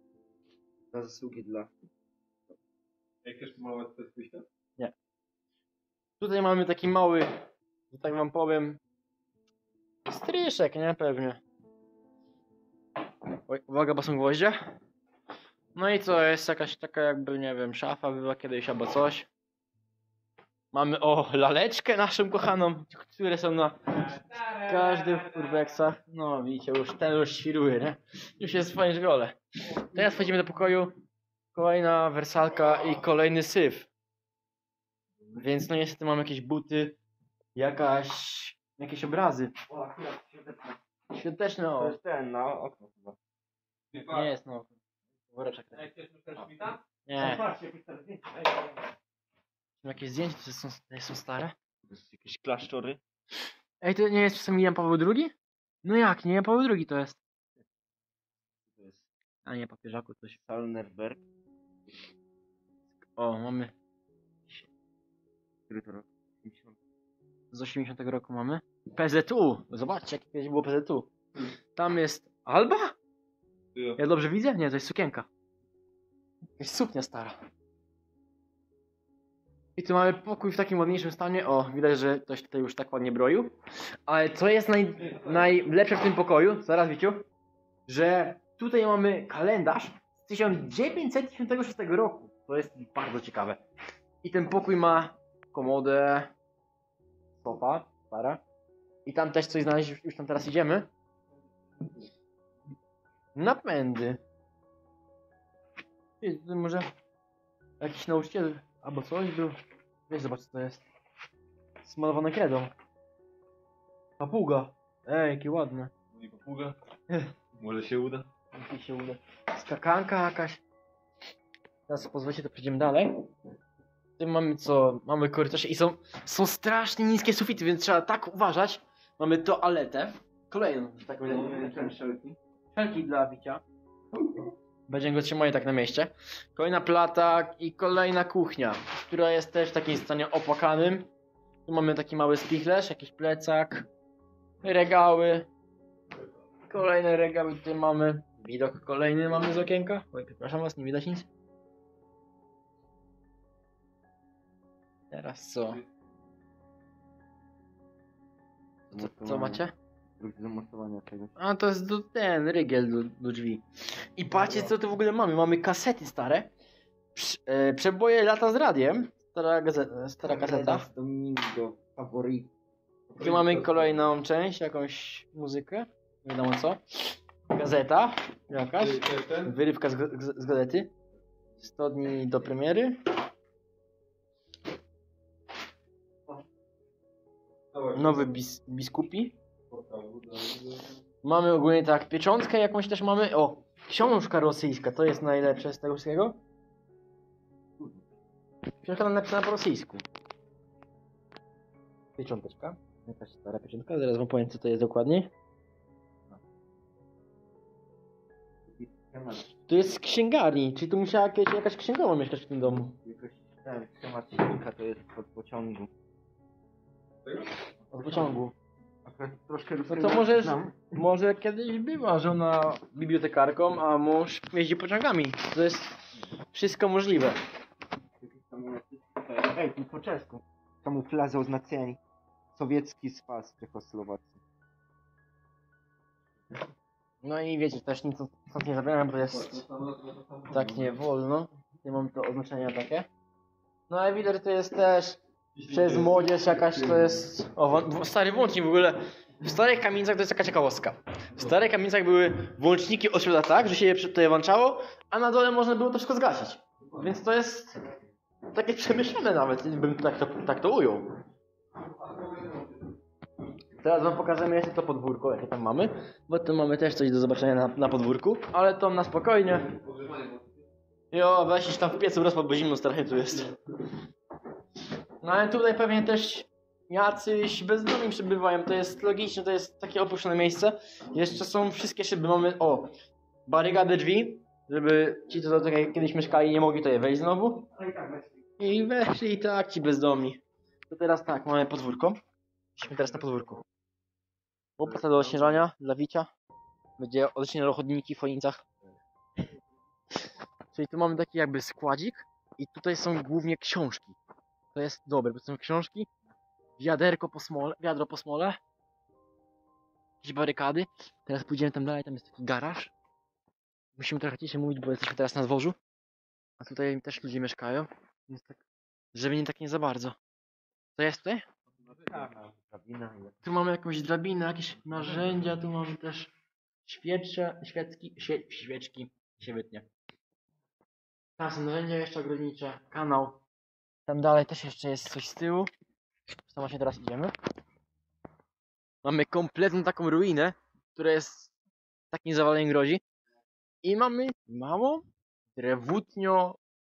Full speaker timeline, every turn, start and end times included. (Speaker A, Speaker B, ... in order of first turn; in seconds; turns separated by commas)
Speaker A: 0.9-1.7, Speaker B: 3.2-4.4, Speaker C: 6.2-7.3, Speaker C: 7.9-8.8, Speaker C: 10.1-11.4, Speaker C: 13.5-14.6, Speaker C: 15.7-19.3, Speaker C: 20.7-30.9, Speaker C: 31.5-33.9, Speaker C: 35.4-37.0, Speaker C: 37.5-39.5, Speaker A: 39.7-40.8, Speaker C: 41.1-42.0, Speaker A: 41.8-43.2, Speaker B: 43.9-44.3, Speaker C: 43.9-44.8, Speaker C: 45.3-46.5, Speaker B: 45.8-46.8, Speaker C: 47.0-47.4, Speaker A: 47.2-48.7, Speaker C: 49.8-51.5, Speaker A: 51.9-53.0, Speaker C: 53.8-55.3, Speaker C: 55.8-57.2, Speaker A: 58.7-59.1, Speaker C: 59.4-60.4, Speaker A: 60.4-61.2, Speaker C: 63.1-63.7, Speaker A: 65.7-66.8, Speaker C: 67.5-71.1, Speaker C: 71.8-72.9, Speaker C: 74.0-75.3, Speaker C: 76.6-77.4, Speaker C: 79.8-83.5, Speaker C: 84.1-87.2, Speaker C: 87.9-93.6, Speaker C: 94.2-96.3, Speaker C: 97.4-98.4, Speaker C: 99.0-100.9, Speaker C: 103.3-104.2, Speaker C: 106.2-106.9, Speaker C: 107.8-109.6, Speaker C: 110.1-110.8, Speaker C: 111.8-112.7, Speaker C: 114.2-115.9, Speaker B: 116.1-116.8, Speaker B: 117.5-118.3, Speaker C: 118.5-120.6, Speaker C: 121.9-123.2, Speaker C: 124.2-131.9, Speaker A: 131.2-132.4, Speaker C: 132.7-133.6, Speaker C: 134.9-141.1, Speaker C: 141.7-143.9, Speaker C: 144.6-145.5, Speaker C: 146.7-151.3, Speaker C: 155.1-155.8, Speaker A: 158.9-159.7, Speaker C: 158.9-159.7, Speaker A: 160.2-161.3, Speaker C: 161.4-163.6, Speaker C: 164.2-166.5, Speaker C: 167.1-170.9, Speaker A: 170.3-172.5, Speaker B: 173.2-173.9, Speaker C: 173.2-180.9, Speaker B: 178.8-179.5, Speaker C: 181.6-183.0, Speaker B: 187.7-188.2, Speaker C: 187.9-189.3, Speaker B: 189.7-191.0, Speaker C: 191.2-196.4, Speaker A: 197.8-198.0, Speaker C: 198.8-200.0, Speaker C: 202.2-205.3, Speaker A: 208.6-209.5, Speaker C: 209.7-212.9, Speaker A: 213.0-215.9, Speaker C: 217.9-218.5, Speaker A: 219.0-220.8, Speaker C: 219.9-227.4, Speaker A: 228.2-232.0, Speaker A: 232.5-234.4, Speaker C: 237.2-239.6, Speaker B: 239.4-240.8, Speaker C: 240.5-243.1, Speaker C: 243.9-257.8, Speaker B: 245.6-247.0, Speaker C: 258.5-261.2, Speaker B: 262.0-262.7, Speaker C: 263.8-269.7, Speaker B: 269.7-270.5, Speaker C: 271.1-273.6, Speaker C: 275.2-282.9, Speaker C: 283.5-287.7, Speaker A: 287.7-288.4, Speaker C: 288.6-292.2, Speaker C: 292.8-293.6, Speaker C: 294.8-296.3, Speaker C: 297.0-298.6, Speaker C: 300.7-304.2, Speaker C: 304.7-306.1, Speaker C: 306.8-308.6, Speaker C: 310.2-312.9, Speaker C: 314.0-315.8, Speaker C: 316.6-318.6, Speaker C: 319.1-320.2, Speaker C: 320.9-321.4, Speaker A: 321.9-323.4, Speaker C: 323.4-326.3, Speaker C: 326.8-329.9, Speaker C: 331.4-333.4, Speaker C: 334.1-335.7, Speaker C: 336.4-337.3, Speaker C: 339.0-341.5, Speaker C: 342.1-343.0, Speaker C: 343.8-345.0, Speaker C: 345.5-346.6